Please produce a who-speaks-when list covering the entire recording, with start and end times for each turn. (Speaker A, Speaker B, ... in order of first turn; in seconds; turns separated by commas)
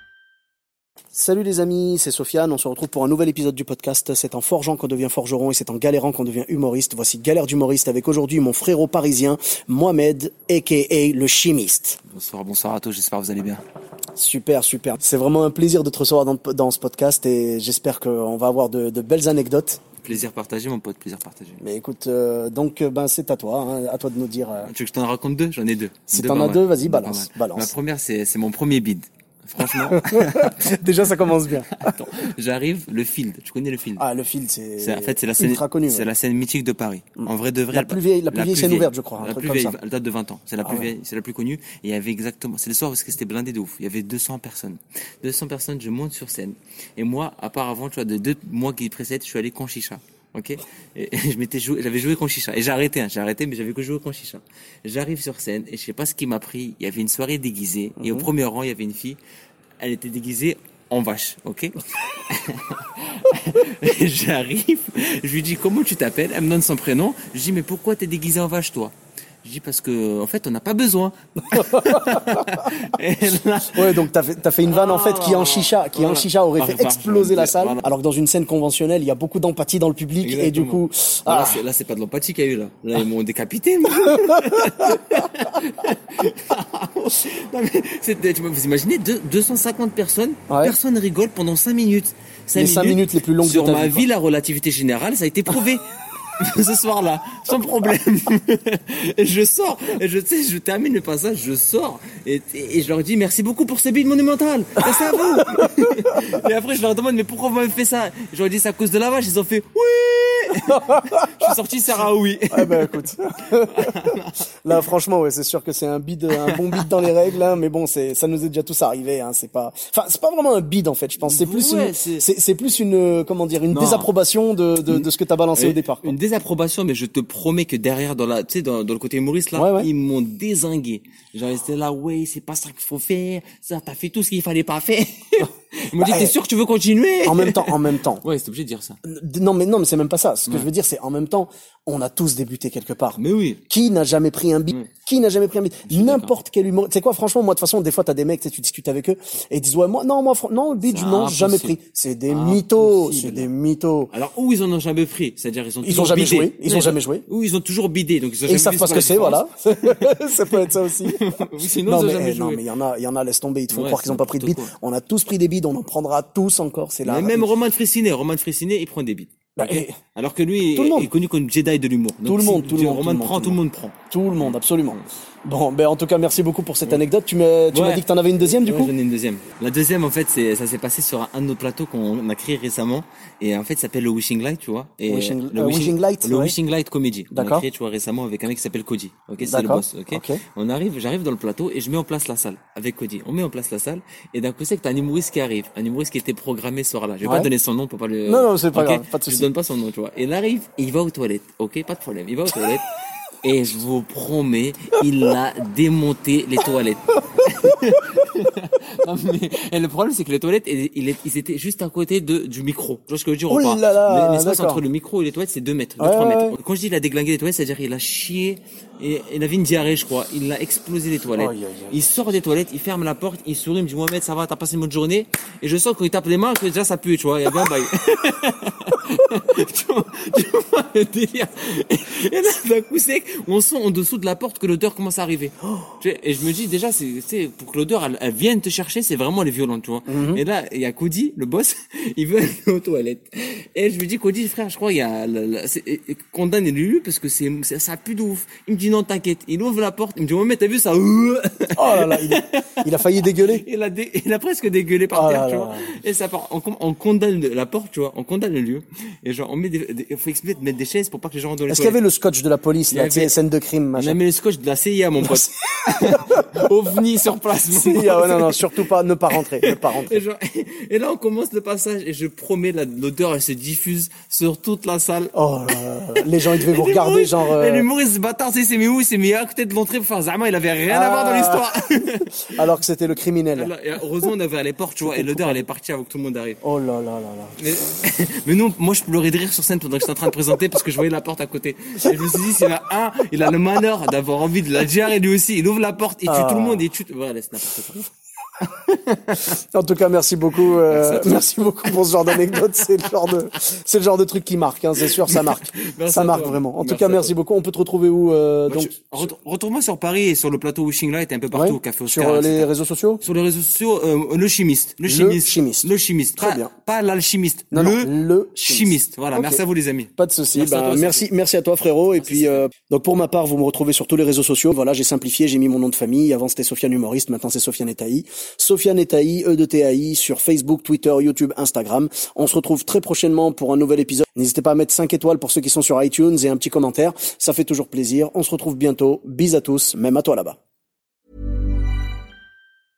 Speaker A: 1.1-12.0, Speaker B: 12.1-13.6, Speaker A: 14.2-19.8, Speaker B: 20.0-21.6, Speaker A: 21.6-24.7, Speaker B: 24.6-30.5, Speaker A: 26.1-27.7, Speaker A: 29.9-31.9, Speaker B: 31.7-34.1, Speaker A: 34.0-36.1, Speaker B: 34.8-59.2, Speaker A: 37.2-39.8, Speaker A: 40.6-40.9, Speaker A: 58.0-58.3, Speaker B: 59.8-68.9, Speaker B: 69.4-74.0, Speaker A: 71.5-72.7, Speaker A: 73.7-81.6, Speaker B: 74.7-77.9, Speaker B: 80.2-95.8, Speaker A: 90.5-90.8, Speaker A: 92.6-94.1, Speaker B: 96.4-114.5, Speaker A: 110.7-111.2, Speaker A: 112.5-114.0, Speaker A: 114.6-126.1, Speaker B: 116.4-117.0, Speaker B: 121.2-122.2, Speaker B: 123.7-124.1, Speaker B: 124.9-139.0, Speaker A: 129.6-129.9, Speaker A: 136.0-136.3, Speaker A: 137.2-138.2, Speaker A: 139.0-154.1, Speaker B: 143.2-143.6, Speaker B: 145.9-146.3, Speaker B: 150.8-151.8, Speaker B: 152.3-153.5, Speaker B: 154.1-162.6, Speaker A: 155.8-157.3, Speaker A: 158.5-161.2, Speaker A: 161.8-167.5, Speaker B: 163.7-164.7, Speaker B: 167.0-175.1, Speaker A: 169.6-170.0, Speaker A: 170.8-171.1, Speaker A: 172.2-173.6, Speaker A: 174.1-178.9, Speaker B: 177.7-202.9, Speaker A: 185.1-186.6, Speaker A: 187.3-187.7, Speaker A: 189.4-190.4, Speaker A: 197.2-197.5, Speaker A: 198.3-199.5, Speaker B: 203.4-262.0, Speaker A: 213.5-214.8, Speaker A: 216.0-216.6, Speaker A: 221.4-222.0, Speaker A: 240.1-240.4, Speaker A: 251.8-253.6, Speaker A: 255.1-255.9, Speaker A: 261.7-264.2, Speaker B: 262.9-263.4, Speaker B: 264.0-268.7, Speaker A: 265.2-265.5, Speaker A: 267.7-270.2, Speaker B: 269.3-275.4, Speaker A: 275.3-277.9, Speaker B: 276.2-282.6, Speaker A: 280.9-281.7, Speaker A: 282.5-283.7, Speaker B: 283.6-286.6, Speaker A: 285.1-285.7, Speaker A: 286.6-287.6, Speaker B: 287.6-298.1, Speaker A: 296.3-296.8, Speaker B: 298.6-299.5, Speaker A: 299.5-309.3, Speaker B: 300.7-303.4, Speaker B: 305.3-307.4, Speaker B: 308.7-312.7, Speaker A: 311.5-313.2, Speaker B: 313.2-321.3, Speaker A: 315.1-316.7, Speaker A: 317.7-319.6, Speaker A: 320.2-340.6, Speaker B: 322.2-322.6